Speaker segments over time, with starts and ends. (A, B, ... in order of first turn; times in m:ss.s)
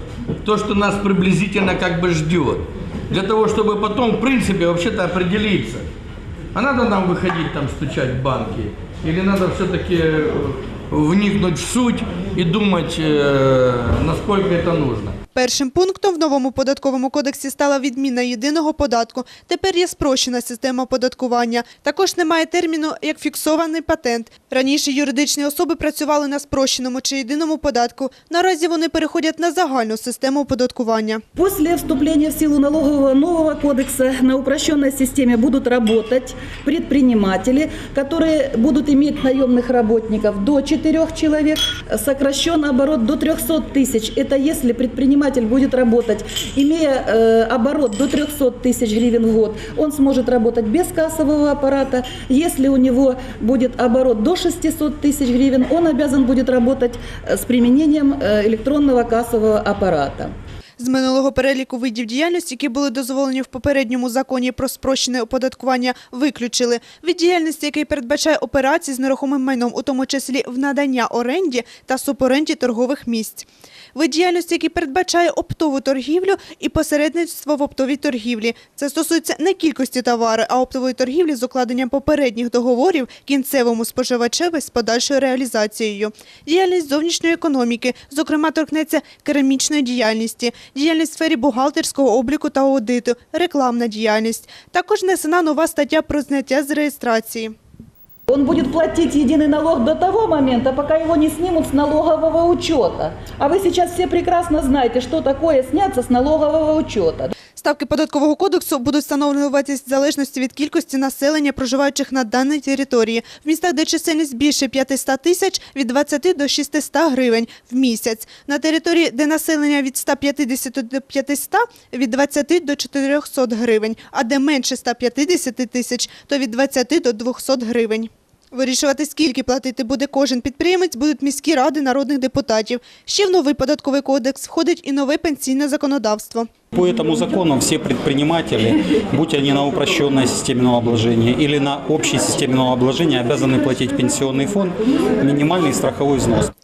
0:00.4-0:05.9 A
0:06.5-0:15.2 A
0:15.3-0:31.2 B
0:31.4-1:00.3 C
1:00.8-1:37.5 B
1:38.3-1:47.3 C
1:47.6-2:16.5 B
2:16.7-2:26.5 D